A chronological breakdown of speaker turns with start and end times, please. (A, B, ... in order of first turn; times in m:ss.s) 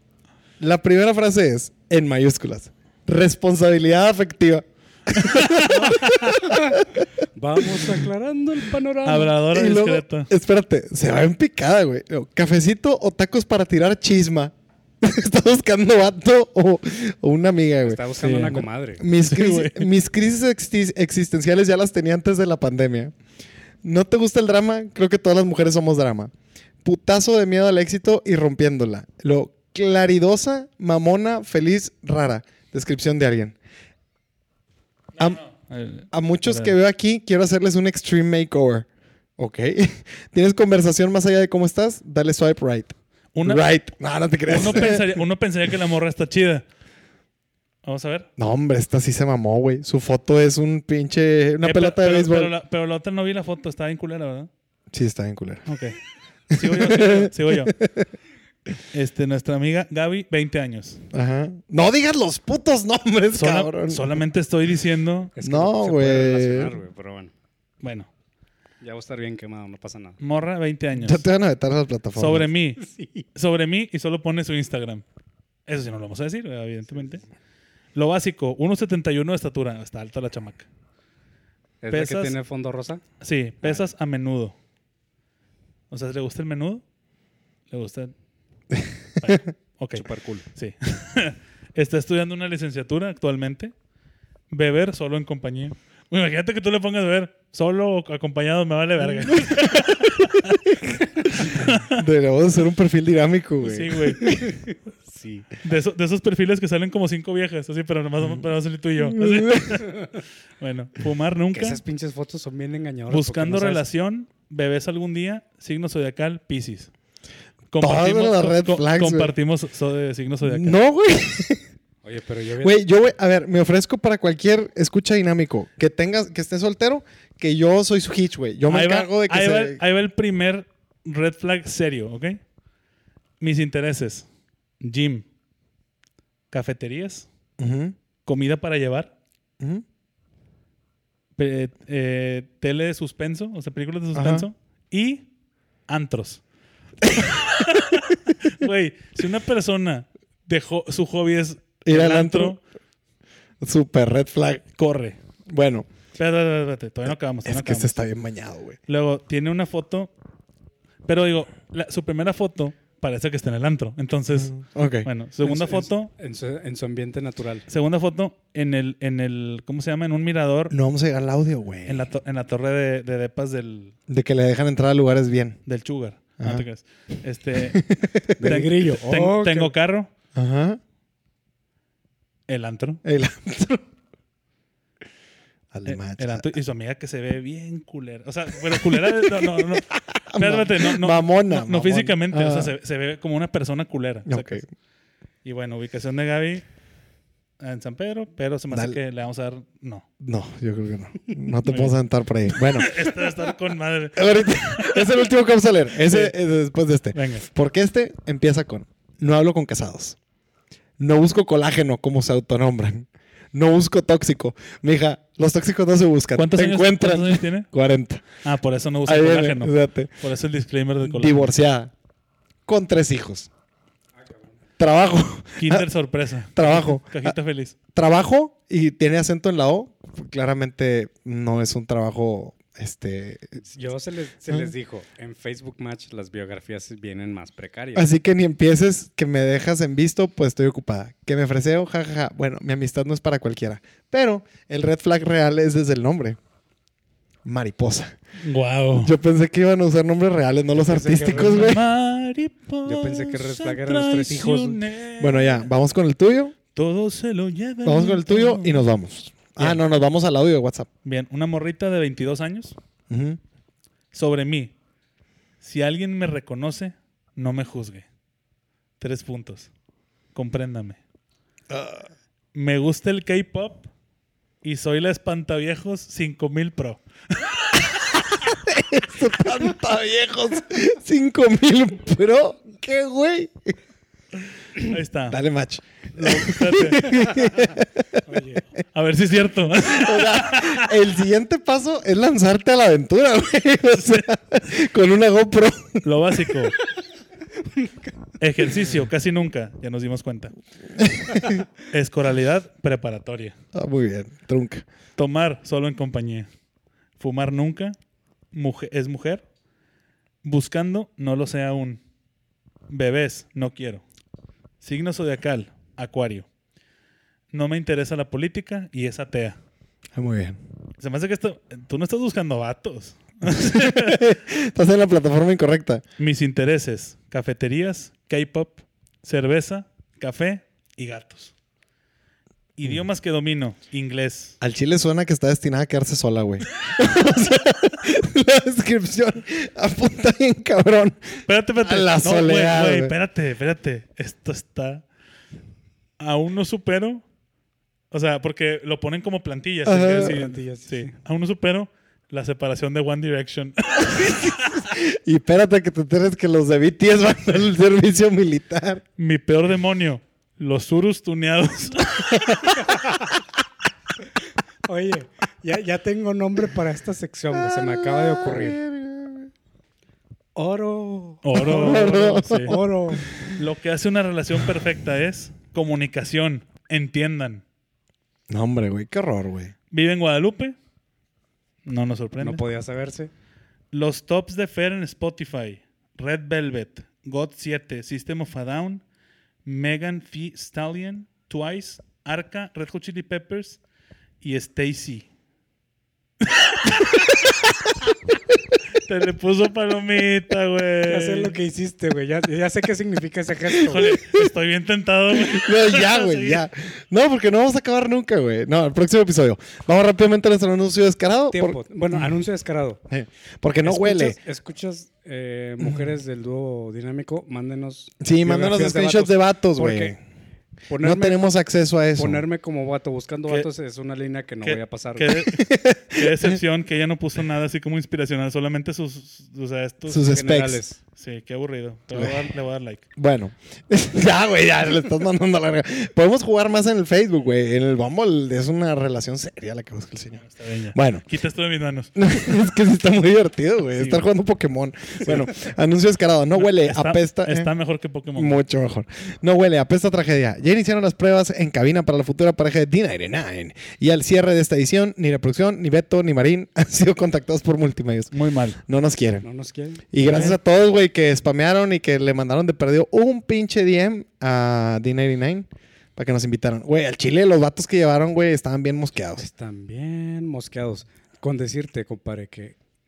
0:00.6-0:06.6 A
0:05.2-0:06.1 B
0:05.6-0:09.3 C
0:09.0-0:10.3 B
0:09.5-0:18.0 A
0:17.8-0:19.0 C
0:18.2-0:18.6 B
0:19.0-0:23.1 A
0:19.2-0:19.9 B
0:23.8-0:26.3 A
0:26.8-0:33.6 A
0:35.2-0:36.7 B
0:36.1-0:45.1 A
0:43.3-0:43.6 B
0:44.5-0:46.6 B
0:47.8-0:48.3 B
0:48.4-0:52.5 A
0:51.6-0:54.5 B
0:54.9-0:55.7 A
0:55.7-0:56.0 B
0:56.5-0:57.7 B
0:56.5-0:58.1 A
0:58.9-1:01.0 B
1:01.1-1:04.1 A
1:03.3-1:05.3 B
1:05.3-1:07.3 C
1:05.4-1:06.7 A
1:07.8-1:08.1 B
1:08.8-1:10.2 C
1:10.2-1:11.2 B
1:10.9-1:12.5 A
1:12.2-1:12.8 B
1:12.8-1:13.2 C
1:13.3-1:15.0 B
1:15.7-1:17.2 B
1:17.9-1:20.7 B
1:21.8-1:23.0 C
1:21.9-1:22.3 B
1:23.2-1:24.6 B
1:23.6-1:23.9 C
1:25.9-1:26.8 B
1:27.7-1:28.1 B
1:29.2-1:33.7 B
1:29.9-1:30.4 C
1:34.5-1:40.8 B
1:39.2-1:40.0 A
1:40.8-1:44.5 A
1:41.4-1:41.8 B
1:43.6-1:44.2 B
1:44.2-1:45.5 C
1:45.6-1:51.8 B
1:49.0-1:49.8 A
1:51.5-1:53.8 C
1:53.1-1:56.9 B
1:57.7-2:00.8 B
1:57.8-1:59.3 A
2:00.4-2:01.6 A
2:02.0-2:02.8 C
2:02.6-2:09.8 A
2:08.7-2:12.4 B
2:13.4-2:14.2 B
2:14.8-2:15.2 B
2:16.5-2:17.3 B
2:17.6-2:18.0 A
2:18.2-2:19.1 B
2:21.4-2:25.2 B
2:24.1-2:24.5 A
2:25.9-2:26.4 B
2:27.0-2:27.4 A
2:27.1-2:32.6 B
2:31.8-2:32.6 A
2:33.6-2:34.6 A
2:34.8-2:35.2 B
2:35.5-2:35.9 A
2:36.2-2:38.0 B
2:37.4-2:38.8 A
2:38.9-2:40.1 B
2:41.0-2:46.1 B
2:44.3-2:45.1 A
2:45.4-2:47.6 C
2:47.7-2:50.7 B
2:50.7-2:52.1 A
2:51.8-2:54.0 B
2:54.1-2:55.6 A
2:55.6-2:57.9 B
2:56.4-2:56.6 A
2:57.7-2:58.5 A
2:58.4-2:59.7 C
2:58.4-3:00.1 B
3:00.3-3:00.8 A
3:02.5-3:03.0 B
3:03.0-3:03.9 A
3:05.7-3:06.5 A
3:05.8-3:14.6 B
3:09.1-3:12.7 A
3:14.3-3:14.6 A
3:15.4-3:16.6 B
3:17.6-3:20.0 B
3:18.7-3:19.0 A
3:20.2-3:23.0 A
3:21.6-3:22.0 B
3:22.5-3:25.2 B
3:24.2-3:30.2 A
3:26.0-3:26.3 B
3:27.1-3:27.5 B
3:31.0-3:38.3 A
3:36.4-3:37.7 B
3:38.4-3:41.5 B
3:39.0-3:40.1 A
3:41.0-3:41.9 A
3:42.6-3:43.5 A
3:44.2-3:44.5 C
3:44.8-3:45.8 A
3:45.6-3:47.7 B
3:46.5-3:47.4 A
3:47.9-3:53.6 A
3:53.6-3:58.1 C
3:57.9-4:06.4 A
4:07.4-4:08.2 A
4:08.4-4:09.1 B
4:08.9-4:11.8 A
4:10.7-4:11.7 C
4:11.3-4:15.7 B
4:12.8-4:14.8 C
4:15.2-4:16.5 A
4:16.7-4:18.8 B
4:17.8-4:20.9 A
4:21.0-4:22.8 B
4:23.1-4:23.4 A
4:24.1-4:24.7 B
4:25.6-4:28.0 B
4:29.0-4:29.7 B
4:30.3-4:31.0 B
4:31.7-4:32.1 A
4:32.5-4:33.8 B
4:34.6-4:38.1 B
4:38.5-4:43.7 A
4:44.8-4:45.4 B
4:45.3-4:48.2 A
4:46.1-4:47.2 B
4:48.3-4:48.6 C
4:48.9-4:50.9 B
4:49.9-4:56.0 A
4:54.0-4:54.2 B
4:56.0-4:56.8 B
4:58.4-5:00.5 B
5:01.0-5:01.6 A
5:01.8-5:03.5 B
5:03.7-5:04.9 A
5:05.2-5:06.5 B
5:07.2-5:07.9 B
5:08.5-5:09.4 B
5:10.4-5:12.0 B
5:12.9-5:14.0 B
5:14.8-5:16.5 B
5:17.5-5:19.6 B
5:20.1-5:20.6 A
5:21.0-5:24.2 B
5:23.4-5:26.0 A
5:26.2-5:31.5 B
5:32.8-5:34.6 B
5:34.6-5:43.1 A
5:41.5-5:45.0 B
5:46.2-5:47.2 B
5:48.1-5:54.8 B
5:49.8-5:50.4 A
5:49.9-5:51.1 C
5:54.1-5:59.0 A
5:59.2-6:02.6 B
6:02.4-6:02.7 A
6:04.9-6:08.8 C
6:07.6-6:09.5 A
6:10.6-6:13.2 C
6:11.4-6:12.8 B
6:11.6-6:13.5 A
6:13.5-6:17.6 B
6:18.5-6:19.7 A
6:19.9-6:20.8 B
6:21.8-6:22.6 B
6:22.4-6:23.3 C
6:23.9-6:29.0 B
6:29.6-6:33.8 B
6:34.4-6:35.3 B
6:36.4-6:37.5 B
6:39.0-6:41.6 B
6:41.0-6:44.1 C
6:43.9-6:46.6 B
6:43.9-6:44.5 A
6:45.3-6:52.3 A
6:51.5-6:53.0 C
6:53.1-6:54.4 A
6:53.8-7:00.1 C
6:58.2-7:00.2 A
7:00.9-7:01.4 C
7:01.0-7:02.4 A
7:02.2-7:05.3 C
7:04.6-7:10.4 B
7:05.5-7:06.6 A
7:10.1-7:10.8 A
7:10.3-7:11.0 C
7:11.2-7:13.0 B
7:12.1-7:12.4 A
7:13.2-7:21.2 A
7:20.4-7:22.1 B
7:22.2-7:27.7 A
7:24.0-7:24.2 B
7:26.6-7:28.6 B
7:28.4-7:38.3 A
7:38.3-7:38.8 B
7:38.8-7:39.4 A
7:39.4-7:40.0 C
7:40.1-7:49.5 A
7:40.2-7:40.6 B
7:49.4-7:52.8 C